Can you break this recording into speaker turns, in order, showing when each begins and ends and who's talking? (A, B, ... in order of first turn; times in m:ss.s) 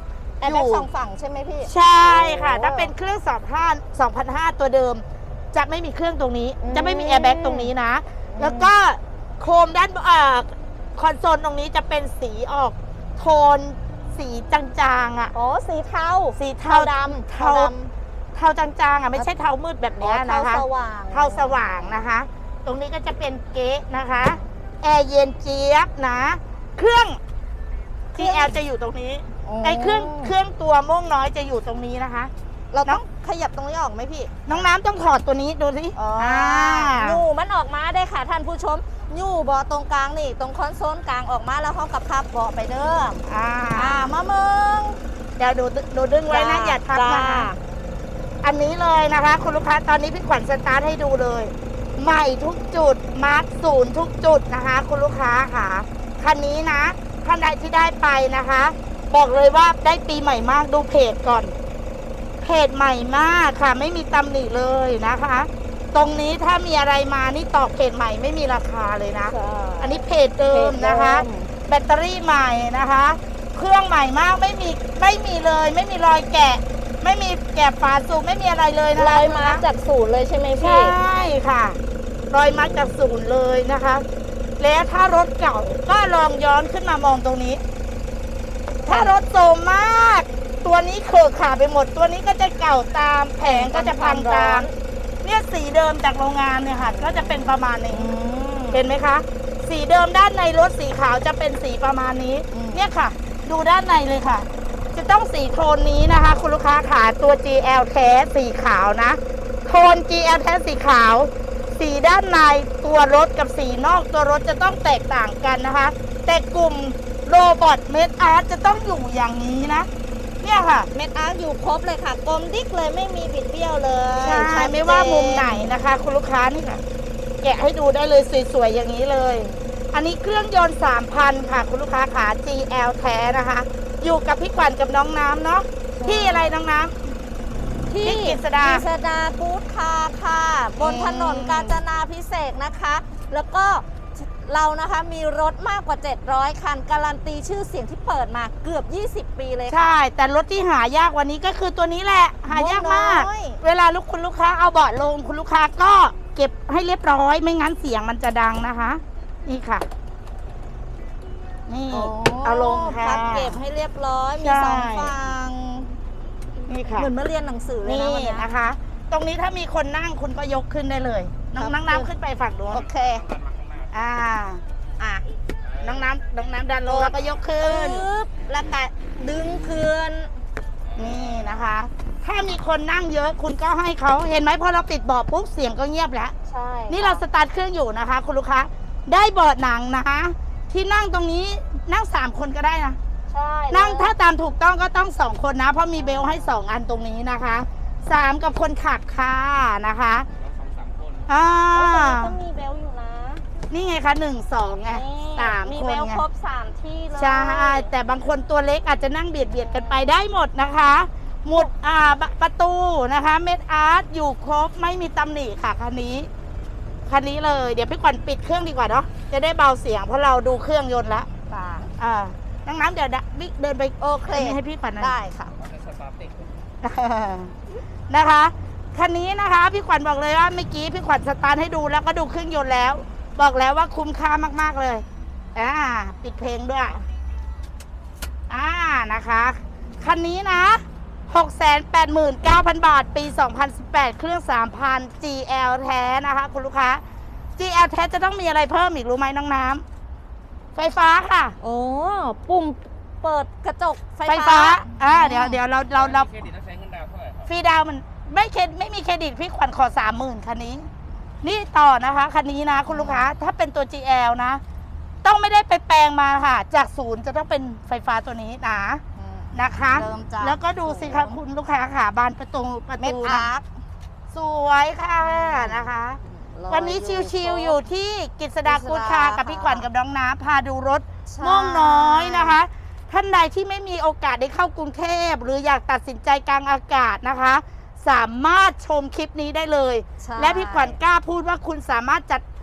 0:00.4-0:00.9 A
0:00.4-0:02.9 B
0:01.7-0:15.3 A
0:06.6-0:07.7 B
0:08.3-0:08.7 B
0:15.3-0:17.9 B
0:16.4-0:17.7 A
0:18.3-0:27.2 A
0:20.0-0:22.0 B
0:28.1-0:32.3 A
0:28.2-0:28.6 B
0:29.4-0:30.3 B
0:32.7-0:34.7 B
0:34.5-0:37.2 A
0:35.9-0:45.0 B
0:43.2-0:44.1 A
0:45.4-0:47.5 A
0:46.3-0:47.6 B
0:48.4-1:01.5 A
1:02.4-1:19.6 A
1:09.3-1:11.5 B
1:18.9-1:21.0 B
1:20.6-1:21.8 A
1:22.3-1:24.0 A
1:22.6-1:22.9 B
1:24.6-1:27.6 A
1:28.8-1:34.7 A
1:28.8-1:29.1 B
1:33.4-1:34.7 B
1:35.2-1:38.1 A
1:36.8-1:38.8 B
1:38.7-1:59.9 A
1:42.5-1:42.8 B
2:00.4-2:00.9 A
2:00.9-2:05.7 B
2:04.2-2:06.8 A
2:07.4-2:16.9 A
2:16.0-2:16.6 B
2:17.9-2:29.9 B
2:18.0-2:18.8 A
2:20.8-2:21.8 A
2:29.7-2:39.9 A
2:32.5-2:33.6 B
2:41.7-2:43.6 A
2:41.9-2:45.9 B
2:44.4-2:45.2 A
2:46.7-2:47.1 A
2:47.0-2:48.5 B
2:47.8-2:52.8 A
2:51.6-2:52.1 B
2:52.7-2:53.2 B
2:52.8-2:53.9 C
2:53.9-2:54.6 A
2:55.0-2:55.3 B
2:55.6-2:56.1 C
2:55.8-2:58.0 A
2:56.9-3:00.3 B
2:57.1-2:57.4 C
3:00.8-3:01.6 C
3:01.0-3:06.3 A
3:06.4-3:07.2 B
3:06.9-3:13.0 A
3:13.3-3:14.1 B
3:13.7-3:20.3 A
3:16.0-3:16.5 B
3:20.4-3:21.3 C
3:21.3-3:22.3 A
3:21.7-3:23.4 B
3:23.7-3:26.2 A
3:24.8-3:27.9 B
3:27.2-3:36.3 A
3:29.6-3:30.1 B
3:37.1-3:41.3 A
3:41.5-3:41.9 B
3:42.0-3:45.1 A
3:44.0-3:45.5 B
3:45.6-3:46.6 C
3:46.8-3:47.5 A
3:48.1-3:57.0 A
3:58.5-4:07.0 A
4:07.6-4:09.8 A
4:10.8-4:11.6 A
4:11.6-4:15.6 B
4:14.2-4:16.3 A
4:15.9-4:17.5 C
4:17.4-4:20.9 A
4:21.4-4:24.6 A
4:22.9-4:23.3 B
4:25.2-4:29.0 A
4:29.2-4:31.4 B
4:29.5-4:33.5 A
4:33.0-4:33.7 B
4:34.3-4:52.4 A
4:35.2-4:37.8 B
4:38.6-4:39.8 B
4:41.3-4:42.6 B
4:50.2-4:51.0 B